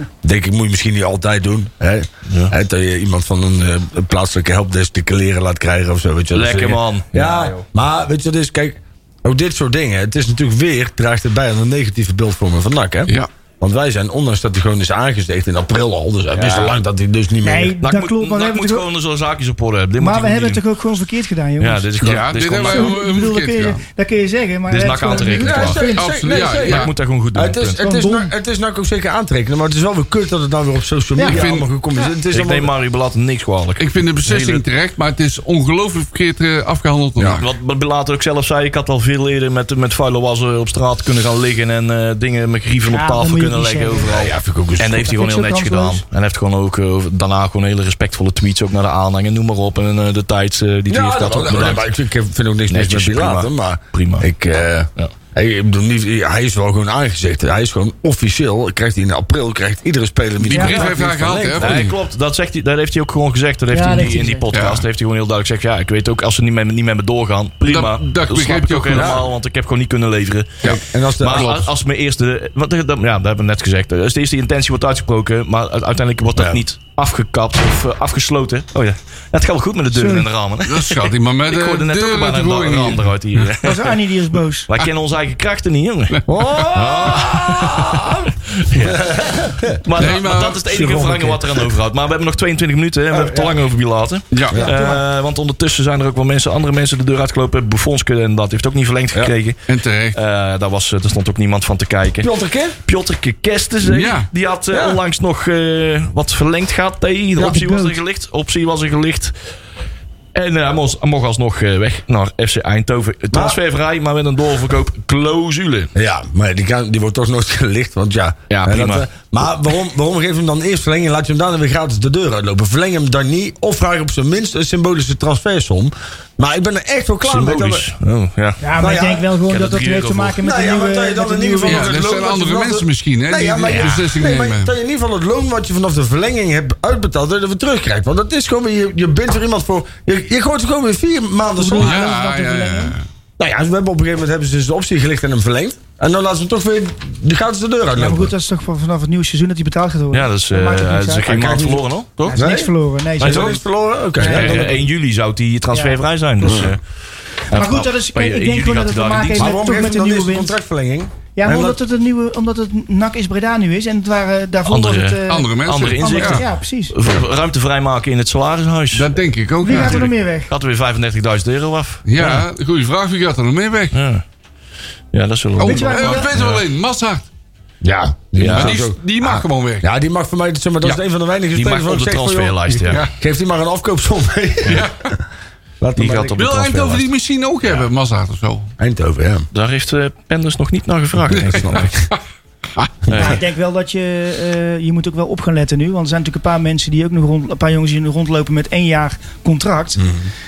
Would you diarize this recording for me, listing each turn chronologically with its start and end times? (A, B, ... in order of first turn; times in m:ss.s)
0:00.2-0:17.8 A
0:02.3-0:02.5 B
0:06.3-0:07.6 B
0:16.3-0:16.7 B
0:17.4-0:18.8 C
0:17.8-0:20.6 B
0:20.0-0:21.9 C
0:21.6-0:23.0 B
0:22.0-0:23.8 D
0:22.6-0:26.1 C
0:24.7-0:27.8 B
0:25.1-0:32.7 A
0:25.9-0:26.9 D
0:27.8-0:28.3 C
0:31.2-0:31.4 C
0:31.2-0:31.7 D
0:32.3-0:34.6 B
0:33.8-0:37.5 D
0:37.2-0:37.4 A
0:37.4-0:51.9 B
0:42.9-0:44.1 C
0:44.0-0:45.1 A
0:45.0-0:46.0 C
0:50.9-1:01.9 A
0:52.7-0:54.3 B
1:00.5-1:01.9 D
1:00.5-1:00.9 B
1:01.6-1:23.9 B
1:03.7-1:04.5 C
1:04.5-1:04.8 D
1:07.7-1:09.2 D
1:08.9-1:09.2 A
1:10.6-1:11.6 A
1:10.6-1:11.7 D
1:16.4-1:16.6 A
1:19.9-1:20.3 C
1:20.6-1:23.5 D
1:23.6-1:24.7 C
1:24.7-1:42.3 B
1:26.1-1:26.7 D
1:26.3-1:29.8 A
1:30.0-1:30.6 D
1:30.6-1:31.6 A
1:33.1-1:33.5 A
1:34.3-1:34.6 D
1:34.5-1:34.8 A
1:34.6-1:35.0 C
1:39.7-1:40.2 D
1:42.2-1:42.8 A
1:42.8-1:49.3 B
1:43.8-1:44.3 D
1:44.7-1:45.0 A
1:47.4-1:48.0 C
1:50.3-1:55.9 B
1:53.3-1:53.6 A
1:55.9-2:07.8 A
1:58.5-1:59.1 B
2:07.2-2:08.6 B
2:08.6-2:11.9 C
2:08.8-2:09.2 A
2:09.5-2:10.4 B
2:10.4-2:22.1 A
2:11.6-2:14.7 D
2:21.6-2:23.0 C
2:21.8-2:23.0 D
2:23.4-2:28.3 A
2:28.0-2:31.5 C
2:30.1-2:32.3 B
2:31.2-2:34.8 A
2:32.2-2:33.6 C
2:33.2-2:33.5 B
2:34.2-2:34.7 C
2:34.2-2:36.8 B
2:35.7-2:36.0 C
2:36.4-2:36.7 A
2:37.5-2:39.6 B
2:37.5-2:40.5 C
2:39.4-2:41.8 A
2:41.3-2:46.9 C
2:44.6-2:49.1 B
2:45.3-2:46.4 D
2:48.9-2:50.1 D
2:49.6-2:50.5 C
2:49.6-2:52.4 B
2:52.0-2:54.0 D
2:53.9-2:54.2 B
2:55.1-2:56.6 B
2:55.6-2:57.3 D
2:55.6-2:56.3 C
2:57.8-3:04.9 A
2:58.4-2:58.8 B
2:58.5-2:59.9 D
3:01.5-3:03.0 B
3:04.6-3:05.1 D
3:05.8-3:06.7 A
3:06.0-3:07.0 B
3:06.3-3:08.7 D
3:08.8-3:09.5 A
3:09.5-3:12.0 B
3:11.3-3:11.9 A
3:11.3-3:12.1 D
3:13.1-3:13.3 A
3:13.1-3:13.4 B
3:13.1-3:20.0 C
3:20.0-3:20.3 A